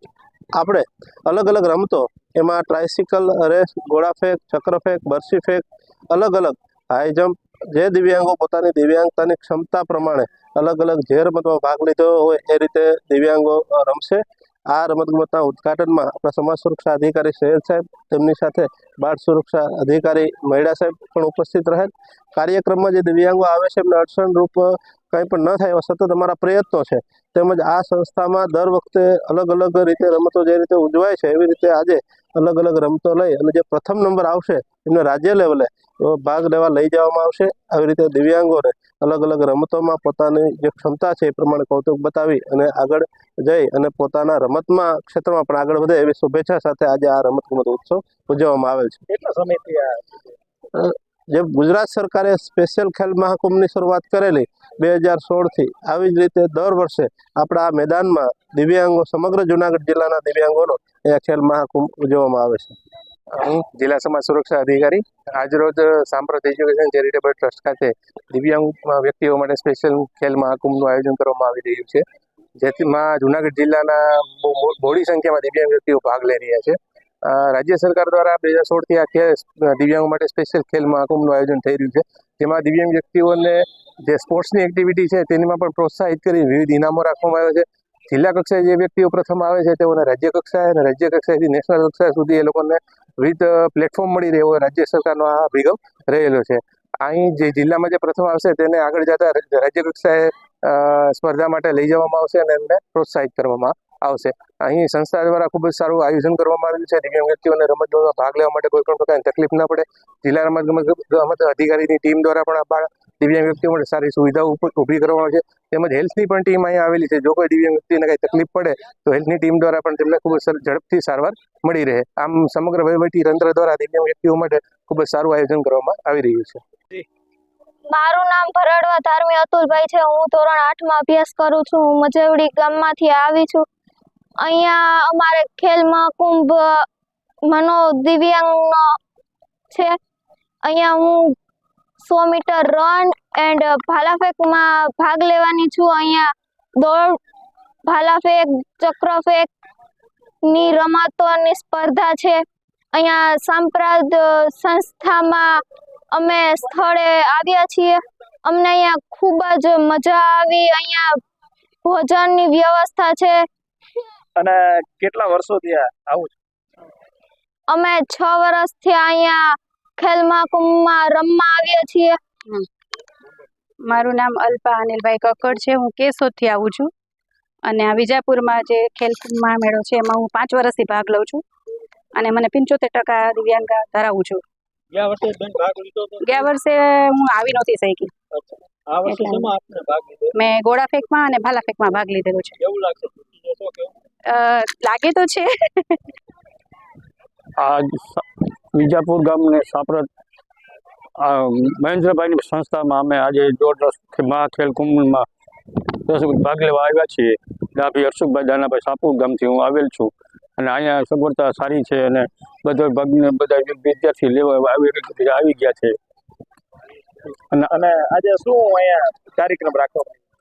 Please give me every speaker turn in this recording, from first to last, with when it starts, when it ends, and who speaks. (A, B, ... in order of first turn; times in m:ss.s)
0:00.6-0:49.0 A
0:49.1-0:50.0 B
0:50.7-1:02.8 A
1:03.3-1:12.0 C
1:12.6-2:07.0 C
2:07.9-2:13.7 D
2:14.4-2:16.9 D
2:17.5-2:19.0 D
2:19.7-2:20.0 D
2:20.6-2:21.4 D
2:22.0-2:27.2 D
2:27.9-2:29.5 D
2:30.5-2:32.4 D
2:32.9-2:35.6 D
2:36.1-2:41.2 D
2:41.8-2:43.5 D
2:44.4-2:46.3 B
2:47.7-2:52.2 D
2:53.9-2:56.9 E
2:57.7-3:01.4 E
3:02.2-3:04.4 E
3:04.9-3:06.6 B
3:06.2-3:08.1 E
3:08.3-3:10.4 B
3:09.0-3:09.5 E
3:10.4-3:12.6 E
3:12.6-3:13.9 B
3:14.3-3:16.0 E
3:17.6-3:20.1 F
3:21.2-3:36.0 F
3:37.7-3:40.2 B